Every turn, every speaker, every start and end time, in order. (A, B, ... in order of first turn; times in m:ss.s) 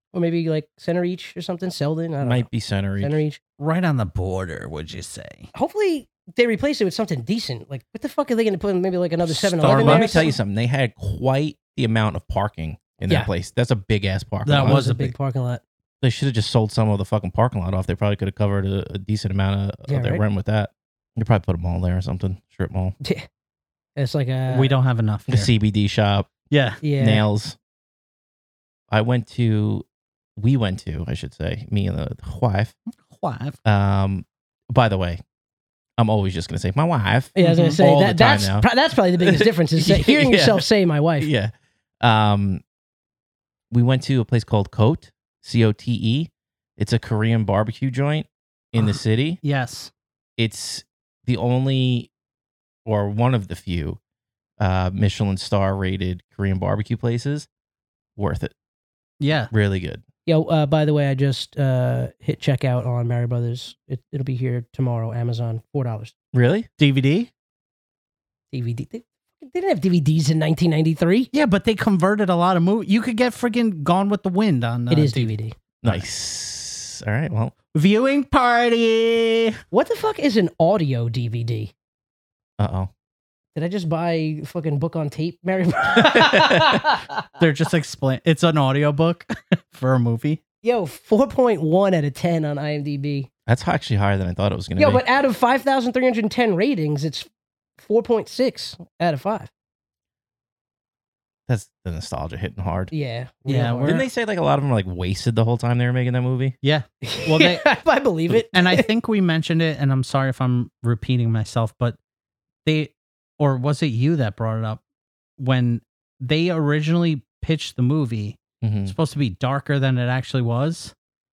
0:00.1-0:03.4 A
0:02.2-0:03.2 B
0:03.6-0:05.5 C
0:05.5-0:10.3 A
0:09.2-0:10.3 C
0:09.6-0:14.8 B
0:14.4-0:15.1 C
0:14.6-0:15.6 A
0:16.0-0:22.9 B
0:19.9-0:20.2 A
0:24.0-0:24.7 A
0:24.5-0:25.5 C
0:25.3-0:26.4 B
0:26.5-0:26.8 C
0:26.8-0:27.2 A
0:27.0-0:27.6 B
0:28.9-0:29.8 B
0:30.4-0:32.7 B
0:32.9-0:33.6 C
0:33.6-0:35.2 B
0:36.0-0:38.7 B
0:37.3-0:41.3 A
0:37.4-0:37.8 C
0:39.2-0:40.6 B
0:41.2-0:42.6 B
0:43.7-0:49.4 B
0:49.4-0:49.9 C
0:50.4-0:52.1 B
0:52.8-0:54.0 B
0:54.6-0:57.5 B
0:58.2-0:58.5 B
0:59.2-0:59.5 C
0:59.5-1:00.0 B
1:00.2-1:06.1 A
1:06.3-1:06.7 B
1:06.8-1:07.3 C
1:08.5-1:11.3 A
1:11.3-1:16.0 C
1:14.9-1:15.5 A
1:15.8-1:17.5 B
1:17.7-1:19.6 C
1:19.7-1:21.7 A
1:22.6-1:22.9 B
1:23.5-1:27.2 A
1:26.1-1:26.8 B
1:27.4-1:30.4 C
1:30.6-1:33.3 A
1:33.5-1:35.0 B
1:34.8-1:37.3 A
1:37.8-1:39.5 A
1:41.5-1:42.9 B
1:42.9-1:44.0 A
1:43.5-1:44.0 C
1:43.8-1:46.5 B
1:46.6-1:47.7 C
1:47.0-1:48.9 A
1:48.3-1:52.0 C
1:52.6-1:54.8 C
1:55.4-2:00.9 C
1:58.6-1:58.9 B